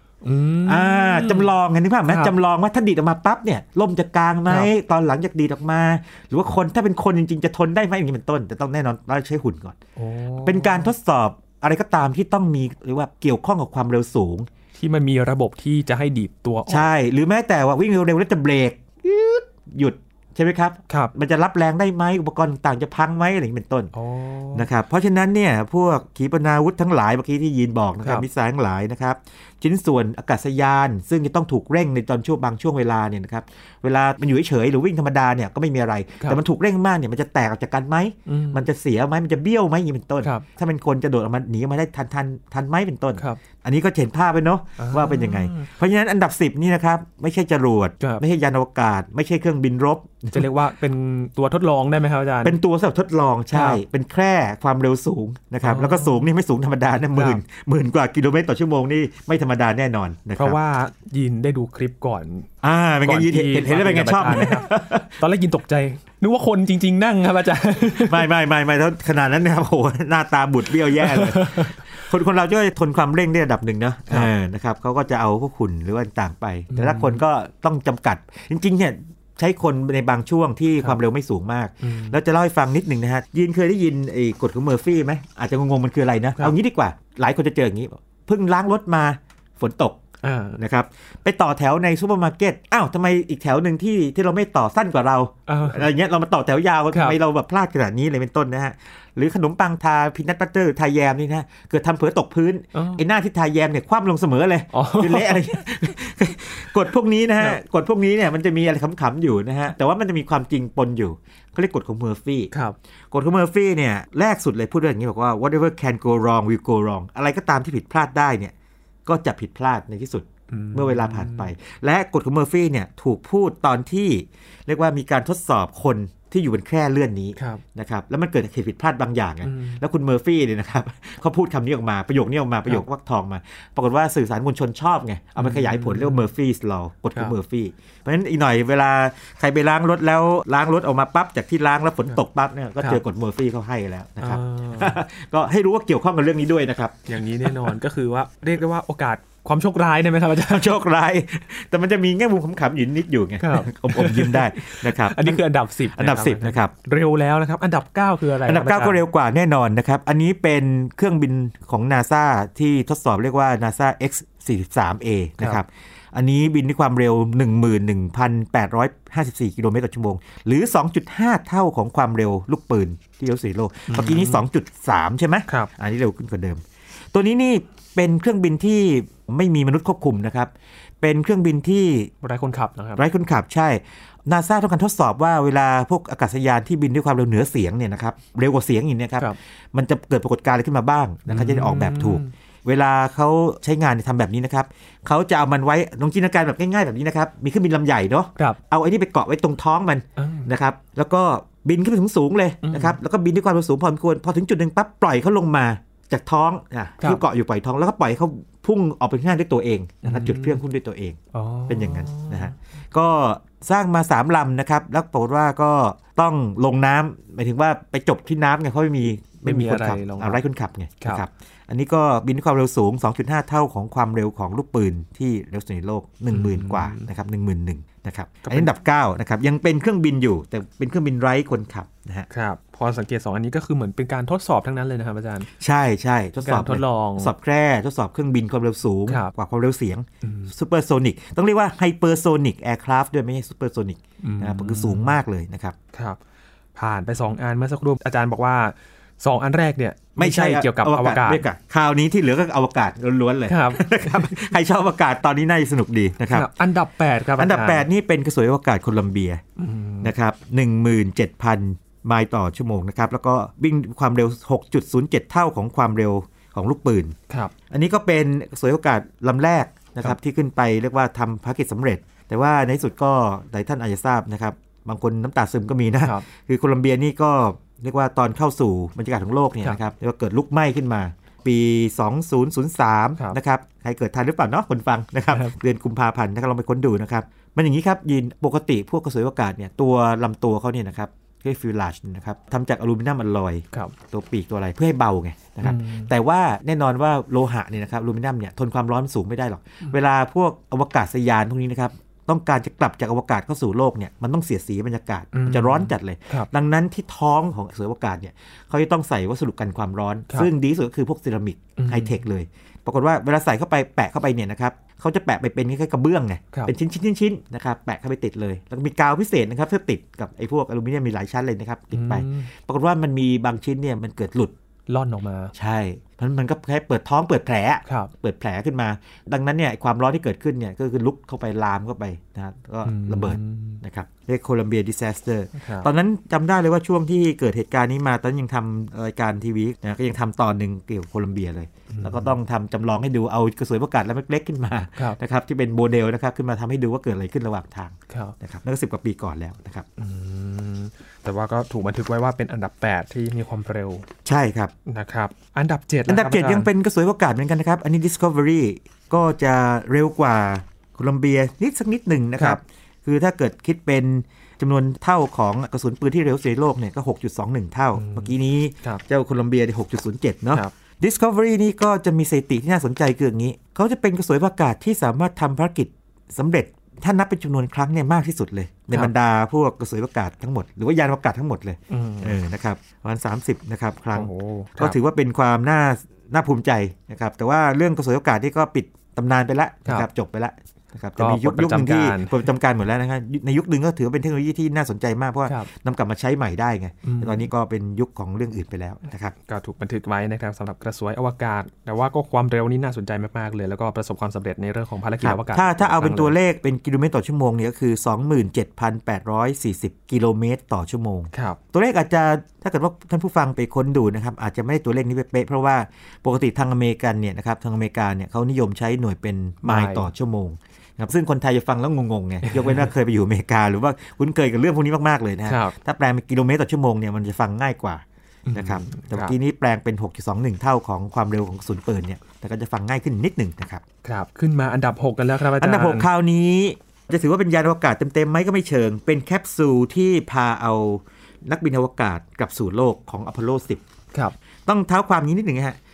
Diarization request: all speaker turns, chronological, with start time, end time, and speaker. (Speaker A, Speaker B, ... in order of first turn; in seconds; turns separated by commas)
Speaker A: 0.2-1.5, Speaker B: 0.7-9.8, Speaker A: 2.1-2.3, Speaker A: 10.0-10.9, Speaker B: 10.4-14.5, Speaker A: 14.7-16.9, Speaker B: 16.7-23.9, Speaker A: 23.9-24.6, Speaker B: 24.5-50.5, Speaker A: 38.2-38.6, Speaker A: 44.8-45.7, Speaker A: 50.3-52.6, Speaker B: 52.4-60.6, Speaker A: 53.5-53.8, Speaker A: 55.6-56.3, Speaker A: 57.1-57.4, Speaker A: 60.4-62.5, Speaker B: 62.6-65.1, Speaker A: 63.0-68.3, Speaker B: 67.9-90.0, Speaker A: 71.0-71.8, Speaker A: 76.7-77.2, Speaker A: 81.8-82.2, Speaker A: 90.2-90.6, Speaker B: 90.6-112.5, Speaker A: 95.5-95.8, Speaker A: 96.9-97.2, Speaker A: 102.7-103.0, Speaker A: 104.7-105.4, Speaker B: 113.1-118.5, Speaker B: 119.0-147.7, Speaker A: 120.5-121.5, Speaker A: 127.3-127.6, Speaker A: 129.4-129.8, Speaker A: 135.4-136.2, Speaker A: 144.2-145.0, Speaker A: 147.1-150.8, Speaker B: 150.5-155.4, Speaker A: 153.4-159.0, Speaker B: 155.9-156.7, Speaker B: 158.4-176.6, Speaker A: 173.9-174.4, Speaker B: 177.1-182.1, Speaker A: 182.2-183.0, Speaker B: 182.9-232.3, Speaker A: 191.3-192.3, Speaker A: 200.2-200.5, Speaker A: 202.6-203.0, Speaker A: 210.0-210.6, Speaker A: 211.3-212.5, Speaker A: 219.4-220.4, Speaker A: 226.3-227.1, Speaker A: 228.4-228.7, Speaker A: 232.3-235.5, Speaker B: 235.6-245.8, Speaker A: 236.4-237.3, Speaker A: 240.2-240.5, Speaker A: 244.2-245.1, Speaker A: 245.9-246.2, Speaker A: 246.7-251.4, Speaker B: 250.2-256.5, Speaker A: 253.5-254.4, Speaker A: 256.3-257.9, Speaker B: 257.4-259.4, Speaker A: 259.6-260.1, Speaker B: 260.0-267.1, Speaker A: 267.3-267.5, Speaker B: 267.7-324.5, Speaker A: 295.6-296.1, Speaker A: 305.3-306.5, Speaker A: 311.8-312.2, Speaker A: 321.9-322.5, Speaker A: 324.9-325.5, Speaker B: 325.5-349.9, Speaker A: 327.9-328.1, Speaker A: 332.8-333.8, Speaker A: 335.5-335.9, Speaker A: 341.9-342.4, Speaker A: 348.1-348.3, Speaker A: 350.0-354.1, Speaker B: 354.2-354.7, Speaker A: 354.9-356.7, Speaker B: 356.1-399.3, Speaker A: 368.0-369.0, Speaker A: 381.9-382.4, Speaker A: 384.1-385.0, Speaker A: 391.2-392.4, Speaker A: 397.0-397.5, Speaker A: 399.4-406.3, Speaker B: 405.2-433.8, Speaker A: 411.3-411.6, Speaker A: 419.6-420.1, Speaker A: 422.4-422.9, Speaker A: 425.5-425.8, Speaker A: 428.5-429.3, Speaker A: 434.0-436.1, Speaker B: 435.6-443.8, Speaker B: 444.6-445.8